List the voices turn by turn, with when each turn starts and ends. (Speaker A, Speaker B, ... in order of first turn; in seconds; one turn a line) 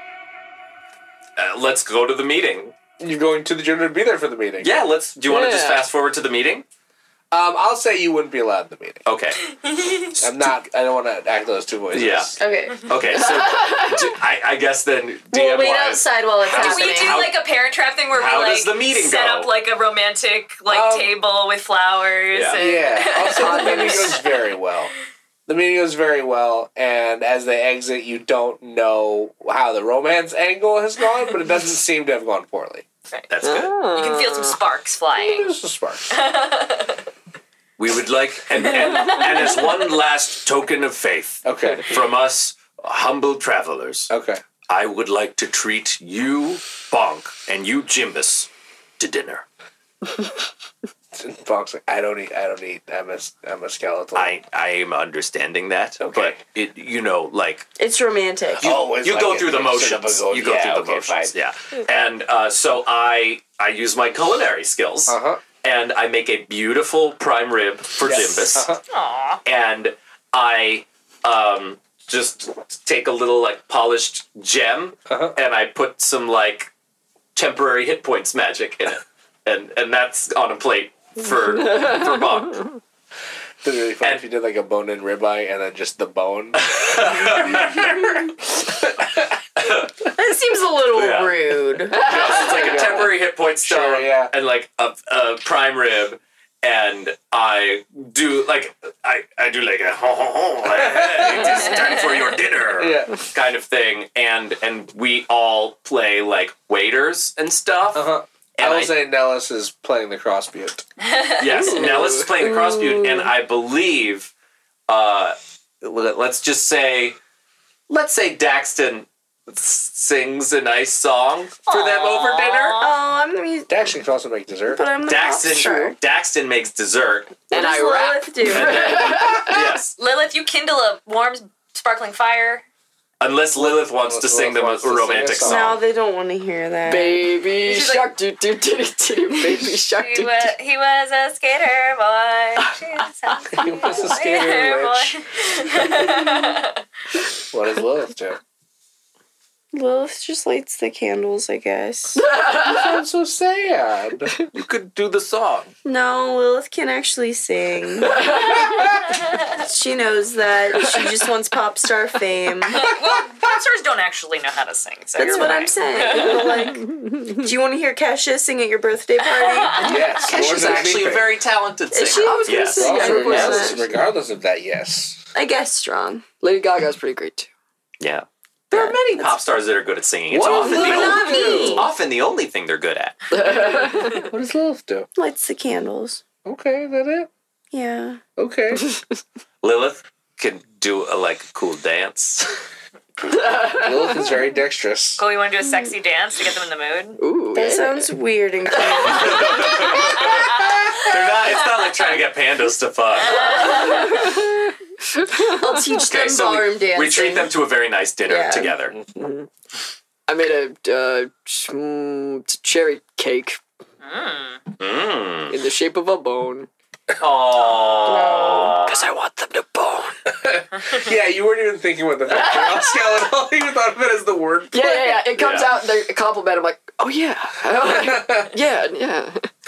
Speaker A: 1.4-2.7
Speaker B: 3.0-4.7
Speaker A: 4.6-6.6
Speaker C: 5.3-5.8
Speaker B: 7.3-9.0
Speaker A: 9.1-9.4
Speaker D: 9.6-10.1
Speaker A: 10.2-10.6
Speaker B: 10.2-12.4
Speaker A: 11.9-17.4
Speaker E: 12.4-12.8
Speaker C: 13.1-14.1
Speaker E: 15.3-17.3
Speaker D: 16.4-24.5
Speaker A: 18.1-19.5
Speaker B: 20.7-21.1
Speaker A: 22.3-22.6
Speaker B: 22.6-24.9
Speaker C: 23.4-24.1
Speaker B: 25.5-32.9
Speaker A: 33.3-33.7
Speaker C: 33.4-34.6
Speaker D: 33.9-35.5
Speaker B: 35.1-36.1
Speaker D: 36.1-37.0
Speaker A: 37.8-44.1
Speaker B: 41.4-42.0
Speaker B: 44.1-44.4
Speaker A: 44.7-49.4
Speaker B: 51.1-54.3
Speaker A: 54.1-57.6
Speaker B: 56.0-56.4
Speaker E: 57.8-58.7
Speaker B: 58.6-61.3
Speaker A: 58.6-68.7
Speaker B: 65.1-65.4
Speaker B: 68.0-68.8
Speaker D: 68.9-69.4
Speaker A: 69.4-76.7
Speaker B: 75.1-75.3
Speaker A: 77.3-82.7
Speaker C: 81.6-82.0
Speaker B: 83.6-89.3
Speaker A: 86.6-87.9
Speaker A: 89.6-89.9
Speaker E: 90.2-92.1
Speaker A: 90.9-109.0
Speaker C: 91.9-92.9
Speaker B: 92.1-94.3
Speaker B: 100.7-101.8
Speaker B: 102.8-103.1
Speaker B: 107.9-110.8
Speaker D: 111.0-111.7
Speaker A: 111.4-114.3
Speaker C: 111.6-112.3
Speaker E: 112.5-113.2
Speaker A: 114.9-117.2
Speaker A: 117.9-122.8
Speaker D: 121.7-123.0
Speaker E: 122.8-123.7
Speaker B: 123.7-124.8
Speaker E: 124.7-126.0
Speaker A: 125.0-127.5
Speaker E: 127.5-129.2
Speaker C: 127.5-129.5
Speaker A: 128.4-129.9
Speaker D: 129.9-132.6
Speaker A: 133.2-135.8
Speaker B: 133.6-135.8
Speaker E: 135.4-137.3
Speaker C: 136.8-140.5
Speaker D: 139.9-146.8
Speaker B: 143.5-145.2
Speaker B: 147.5-148.4
Speaker E: 149.7-152.2
Speaker C: 152.2-153.0
Speaker B: 152.5-154.3
Speaker A: 154.5-155.7
Speaker E: 155.8-159.0
Speaker C: 158.2-158.7
Speaker E: 159.5-163.0
Speaker D: 162.7-166.6
Speaker E: 165.2-170.0
Speaker C: 165.2-167.3
Speaker B: 169.8-171.4
Speaker A: 170.2-173.5
Speaker E: 171.9-173.8
Speaker C: 172.1-173.8
Speaker B: 172.8-175.2
Speaker E: 175.3-176.2
Speaker C: 176.4-177.5
Speaker A: 178.0-183.3
Speaker E: 178.7-179.3
Speaker B: 180.3-181.9
Speaker E: 180.4-181.9
Speaker C: 183.3-184.2
Speaker B: 183.4-185.1
Speaker E: 185.2-186.2
Speaker B: 186.4-187.3
Speaker E: 187.7-188.2
Speaker B: 188.4-188.9
Speaker A: 189.6-192.5
Speaker C: 193.3-194.2
Speaker B: 193.6-195.2
Speaker D: 195.2-197.2
Speaker C: 197.2-198.1
Speaker E: 197.5-199.8
Speaker A: 198.8-203.8
Speaker D: 200.3-200.8
Speaker B: 200.7-200.9
Speaker D: 203.2-204.1
Speaker C: 203.6-204.5
Speaker C: 205.1-205.8
Speaker E: 205.4-207.6
Speaker A: 205.9-208.9
Speaker E: 208.2-208.7
Speaker C: 209.2-209.5
Speaker C: 210.3-213.6
Speaker D: 214.0-214.6
Speaker A: 214.8-215.5
Speaker C: 215.5-216.7
Speaker A: 217.2-219.0
Speaker E: 218.0-218.8
Speaker C: 218.9-220.1
Speaker B: 220.3-225.3
Speaker C: 222.3-222.9
Speaker C: 224.7-229.5
Speaker A: 225.3-225.7
Speaker B: 227.8-228.5